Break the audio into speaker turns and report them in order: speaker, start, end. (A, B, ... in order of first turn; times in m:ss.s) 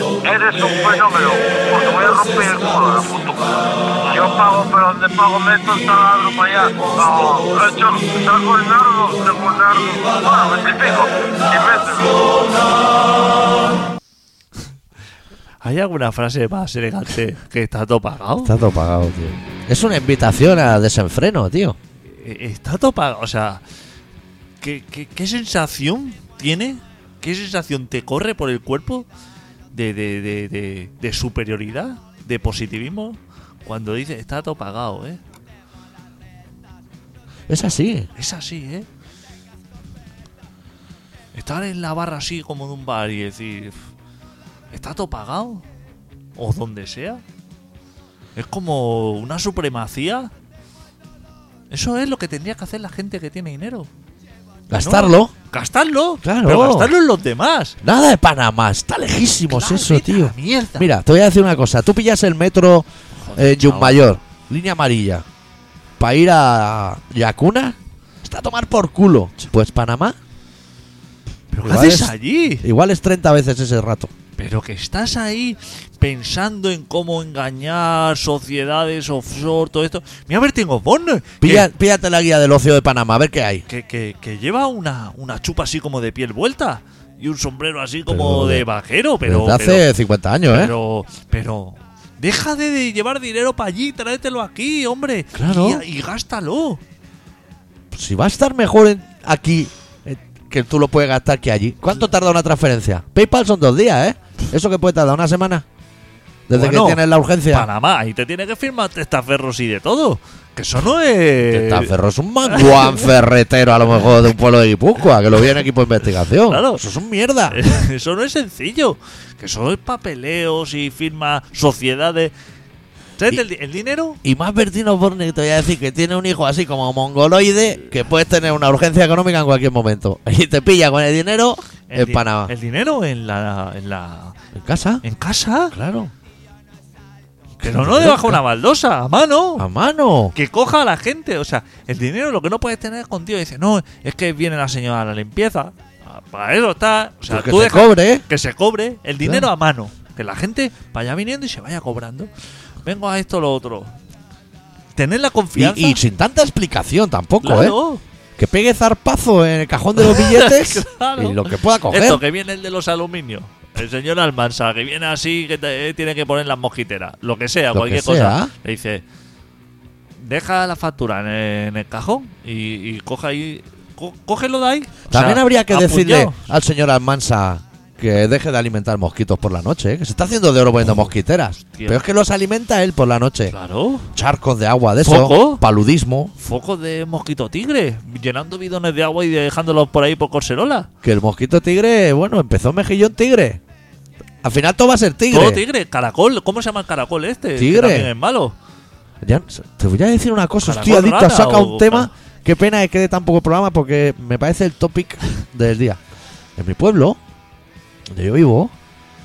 0:00.2-0:12.5 A
0:15.6-0:18.5 B
0:18.4-0:21.8 C
0:22.1-0:23.6 B
0:24.6-0:29.1 B
0:29.7-0:35.2 B
0:37.5-0:38.1 C
0:38.2-0:38.9 B
0:41.3-0:43.8 B
0:44.7-0:45.6 B
0:46.4-0:47.2 B
0:48.3-0:50.3 B
0:51.7-0:53.9 B
0:54.7-0:55.3 C
0:54.8-0:57.8 B
0:56.2-0:56.9 C
0:57.8-1:05.2 C
0:59.5-1:00.9 B
1:03.2-1:04.0 B
1:06.0-1:10.2 C
1:11.5-1:12.6 B
1:11.6-1:14.1 C
1:14.4-1:21.7 B
1:21.4-1:23.6 C
1:23.7-1:29.8 B
1:28.1-1:28.6 C
1:29.2-1:30.7 C
1:30.5-1:36.8 B
1:35.3-1:35.8 C
1:37.9-1:45.6 C
1:46.5-1:47.7 C
1:46.5-1:51.9 B
1:51.5-1:57.6 C
1:52.5-1:53.0 B
1:56.5-1:56.8 B
1:57.5-2:02.3 B
2:03.2-2:04.2 B
2:04.2-2:12.5 C
2:11.9-2:14.4 B
2:14.5-2:15.0 C
2:15.0-2:15.7 B
2:15.7-2:16.1 C
2:17.6-2:18.4 C
2:17.6-2:19.6 B
2:19.6-2:20.3 C
2:20.3-2:32.3 B
2:27.3-2:28.2 C
2:29.2-2:29.5 C
2:32.8-2:33.9 B
2:35.0-2:36.0 B
2:35.6-2:37.8 C
2:37.4-2:38.0 B
2:38.4-2:42.2 C
2:40.0-2:49.0 B
2:47.7-2:48.5 C
2:50.2-2:56.4 B
2:55.1-3:03.5 C
3:01.7-3:02.0 B
3:03.5-3:04.1 B
3:04.1-3:06.3 C
3:05.0-3:05.6 B
3:06.4-3:10.9 B
3:11.0-3:13.6 C
3:14.4-3:15.6 C
3:15.3-3:18.5 B
3:17.6-3:18.1 C
3:19.2-3:26.0 C
3:20.6-3:22.1 B
3:26.6-3:27.2 C
3:28.1-3:28.7 C